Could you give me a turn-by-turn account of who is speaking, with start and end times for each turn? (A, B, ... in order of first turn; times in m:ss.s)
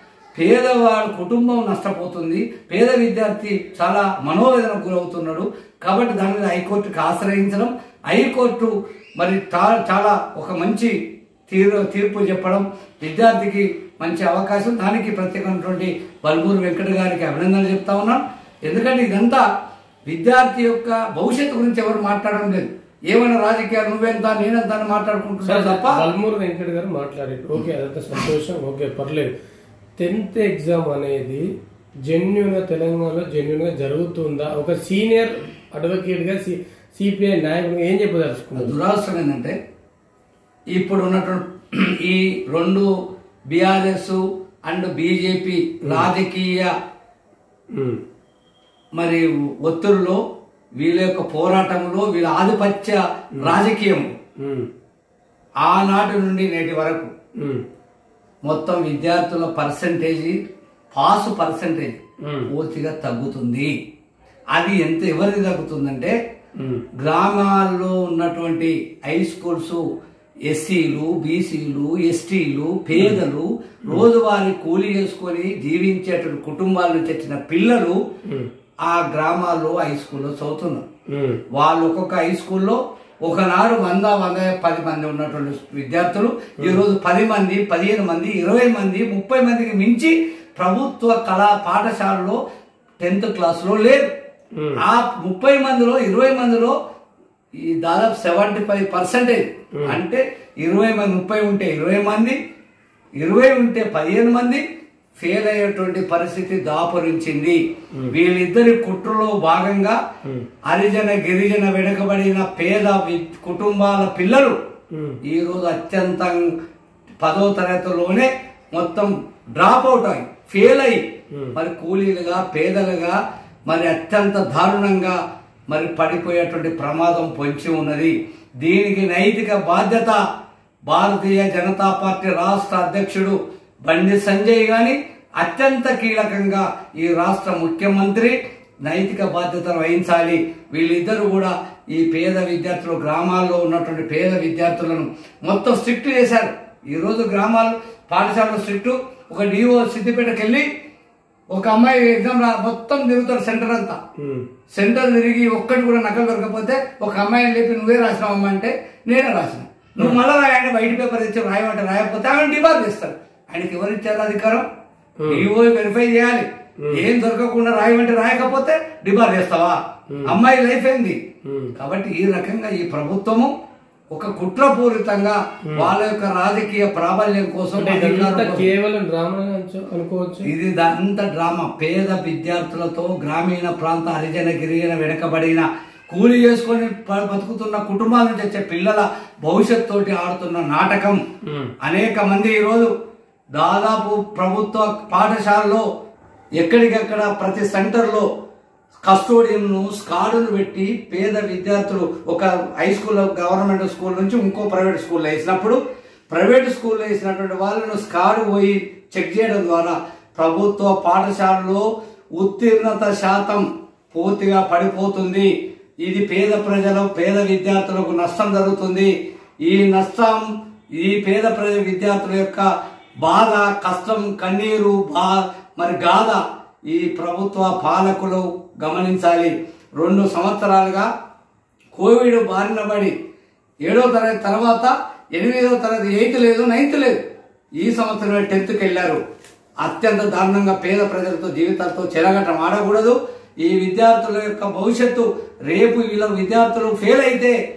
0:00.3-0:10.9 A
0:11.5-0:19.4 A
0:20.1-0:26.0 A
0:25.4-0:29.3 B
0:30.0-0:31.4 B
0:32.0-0:38.7 B
0:38.6-0:39.5 A
0:40.7-0:42.9 A
0:43.5-0:46.7 A
0:47.7-0:48.0 B
0:49.0-0:50.2 A
0:50.8-0:54.1 A
0:54.4-0:54.7 B
0:55.6-0:57.1 A
0:58.4-1:00.4 A
1:00.9-1:03.7 A
1:02.2-1:02.5 B
1:04.5-1:06.1 A
1:06.6-1:06.8 B
1:07.0-1:09.8 A
1:10.5-1:18.0 A
1:13.0-1:13.2 B
1:18.8-1:20.8 A
1:21.1-1:21.4 B
1:21.5-1:32.4 A
1:33.0-1:34.1 A
1:34.8-1:36.7 A
1:37.6-1:42.4 A
1:43.2-1:44.6 A
1:45.2-1:50.0 A
1:50.7-1:54.6 A
1:54.9-1:55.2 B
1:55.2-1:56.5 A
1:57.2-2:03.2 A
2:03.7-2:05.2 A
2:05.7-2:10.2 A
2:10.9-2:30.6 A
2:31.5-2:34.0 A
2:34.2-2:34.4 B
2:34.7-2:44.6 A
2:45.2-2:45.5 B
2:45.3-2:51.2 A
2:50.1-2:50.4 B
2:51.4-2:51.7 B
2:51.7-2:53.5 A
2:54.1-2:58.7 A
2:57.8-3:00.5 B
3:00.4-3:11.2 A
3:11.4-3:11.7 B
3:11.8-3:12.9 A
3:13.5-3:15.8 A
3:16.6-3:18.2 A
3:19.0-3:25.8 A
3:26.3-3:35.5 A
3:36.0-3:39.1 A
3:39.6-3:40.5 A
3:41.0-3:42.7 A
3:43.2-3:51.1 A
3:51.9-3:53.1 A
3:53.8-3:57.2 A
3:57.8-3:59.2 A
3:59.8-4:07.5 A